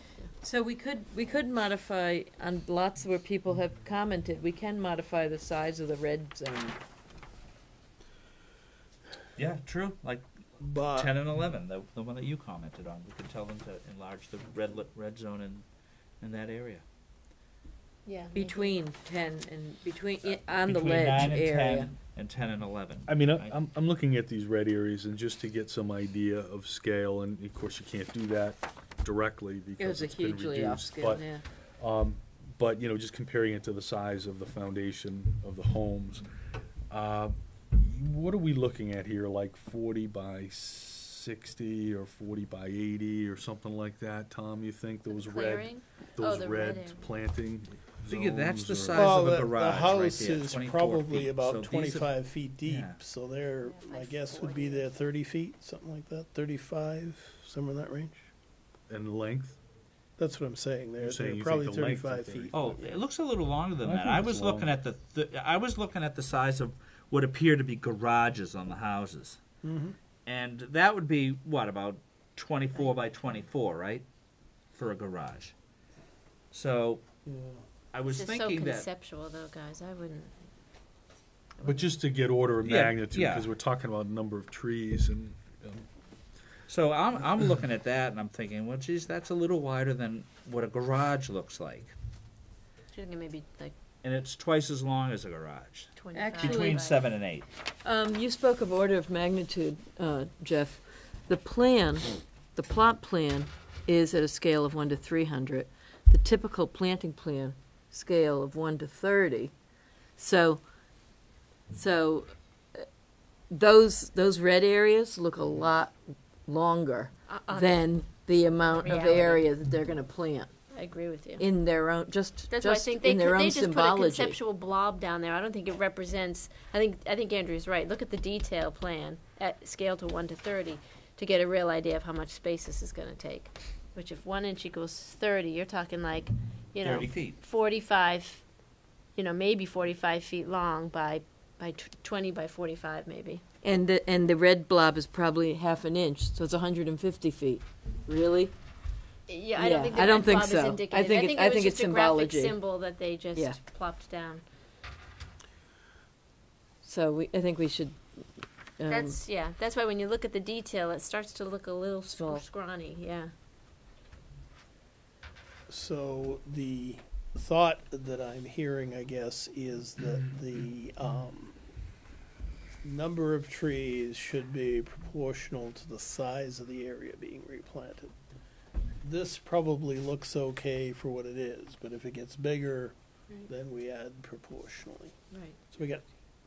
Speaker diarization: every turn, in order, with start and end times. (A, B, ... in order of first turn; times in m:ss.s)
0:00.4-0:06.8 A
0:09.4-0:10.2 B
0:10.6-0:11.1 C
0:10.8-0:15.6 B
0:16.2-0:16.8 B
0:18.0-0:18.8 D
0:18.3-0:21.9 A
0:20.2-0:23.6 B
0:23.1-0:31.2 E
0:29.8-0:31.4 A
0:31.8-0:36.2 E
0:36.9-0:49.4 E
0:45.1-0:47.0 D
0:48.1-0:52.1 B
0:48.9-0:58.3 C
0:52.6-0:53.0 B
0:53.6-0:54.9 D
0:58.9-0:59.6 E
1:00.2-1:03.0 C
1:01.0-1:02.8 E
1:02.5-1:09.4 B
1:03.8-1:04.7 E
1:09.6-1:10.0 C
1:10.2-1:14.0 B
1:14.7-1:15.5 B
1:16.5-1:17.0 B
1:17.2-1:17.6 C
1:17.9-1:18.9 B
1:18.1-1:20.4 D
1:21.6-1:21.9 D
1:21.6-1:25.9 E
1:22.6-1:23.5 B
1:26.7-1:31.9 B
1:32.9-1:33.7 D
1:34.0-1:37.4 B
1:36.0-1:37.0 D
1:36.1-1:36.8 A
1:37.8-1:49.5 A
1:50.2-1:50.6 A
1:51.7-1:52.3 A
1:53.5-2:00.5 A
1:57.3-1:57.8 D
1:58.7-1:59.4 D
2:00.7-2:01.4 D
2:01.4-2:04.4 A
2:02.5-2:18.4 D
2:16.8-2:17.4 B
2:19.1-2:23.4 D
2:23.6-2:28.5 A
2:29.3-2:34.4 D
2:29.6-2:32.6 A
2:36.8-2:38.0 A
2:38.8-2:39.2 A
2:38.9-2:43.3 D
2:42.1-2:42.4 A
2:45.7-2:51.5 C
2:52.8-2:58.1 C
2:59.0-3:02.9 C
3:03.5-3:05.2 C
3:05.3-3:05.6 D
3:05.7-3:06.0 C